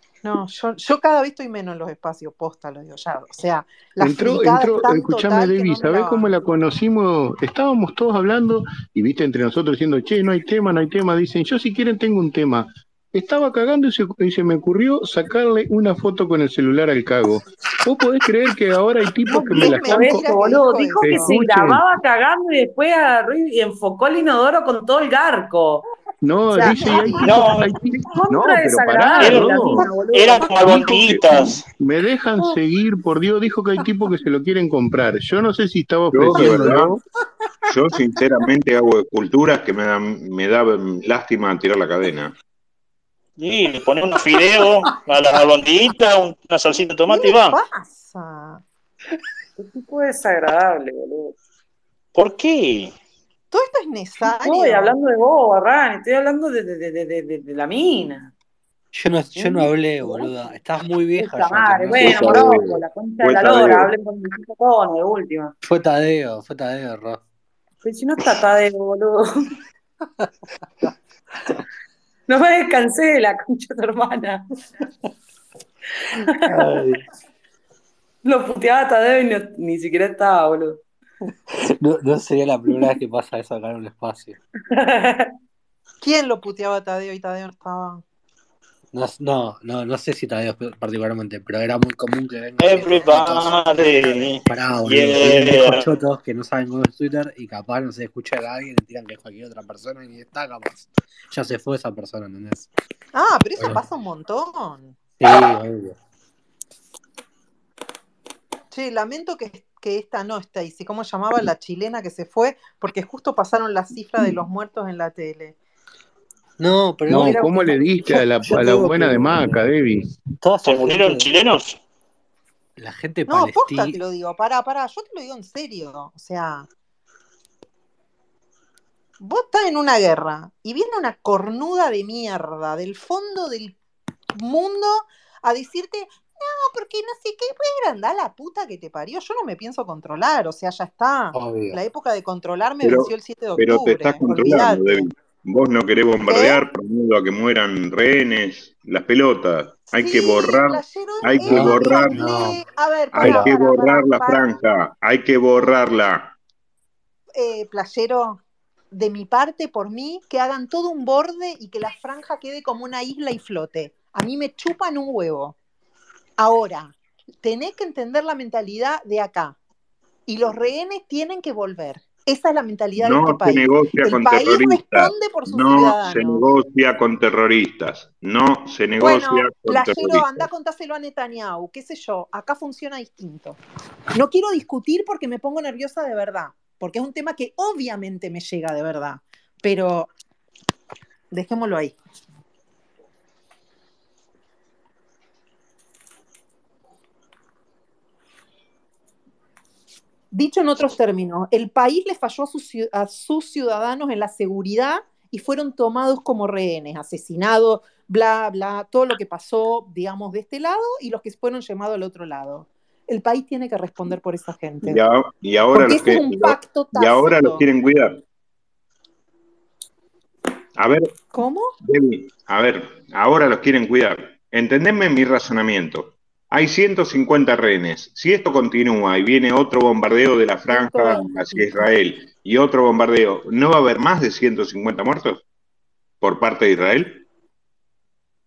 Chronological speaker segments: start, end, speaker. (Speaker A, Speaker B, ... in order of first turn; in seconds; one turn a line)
Speaker A: 0.2-6.3
Speaker B: 4.0-20.2
Speaker C: 19.3-25.8
Speaker A: 19.3-21.4
Speaker B: 21.0-21.8
Speaker B: 26.2-29.9
Speaker C: 26.5-26.9
Speaker A: 26.5-27.5
Speaker D: 27.2-27.7
Speaker C: 28.0-30.6
Speaker D: 29.2-31.6
Speaker B: 30.6-37.0
Speaker E: 36.1-36.9
Speaker E: 37.7-42.3
Speaker D: 43.4-47.6
Speaker A: 47.1-48.6
Speaker C: 49.6-51.3
Speaker D: 52.1-52.9
Speaker A: 53.5-54.9
Speaker C: 54.3-58.3
Speaker F: 58.9-62.4
Speaker C: 61.2-65.5
Speaker E: 62.0-63.8
Speaker F: 65.6-67.2
Speaker C: 67.8-69.3
Speaker C: 72.3-74.4
Speaker C: 76.2-76.6
Speaker F: 76.4-77.0
Speaker C: 78.2-80.8
Speaker F: 81.5-84.4
Speaker C: 84.7-85.3
Speaker A: 86.0-88.0
Speaker F: 88.9-93.6
Speaker D: 92.6-95.8
Speaker F: 94.4-102.7
Speaker A: 103.1-105.0
Speaker F: 105.2-106.0
Speaker A: 108.7-115.5
Speaker F: 116.6-119.6
Speaker B: 117.1-120.1
Speaker F: 120.4-121.3
Speaker D: 120.6-121.8
Speaker F: 122.8-124.0
Speaker A: 123.3-126.7
Speaker A: 129.2-133.8
Speaker A: 134.3-145.1
Speaker F: 141.3-141.8
Speaker E: 142.8-152.3
Speaker A: 146.3-146.6
Speaker A: 149.9-154.5
Speaker F: 151.4-152.6
Speaker E: 153.1-156.3
Speaker F: 153.2-153.5
Speaker A: 157.3-158.4
Speaker A: 158.9-165.5
Speaker A: 166.4-169.6
Speaker A: 170.3-176.4
Speaker E: 173.0-180.5
Speaker A: 179.0-183.6
Speaker A: 184.1-190.1
Speaker A: 191.3-191.9
Speaker A: 200.3-215.0
Speaker E: 214.8-218.2
Speaker A: 215.7-217.6
Speaker E: 220.8-221.1
Speaker A: 221.3-221.7
Speaker E: 221.8-235.4
Speaker A: 230.7-231.8
Speaker E: 236.2-237.2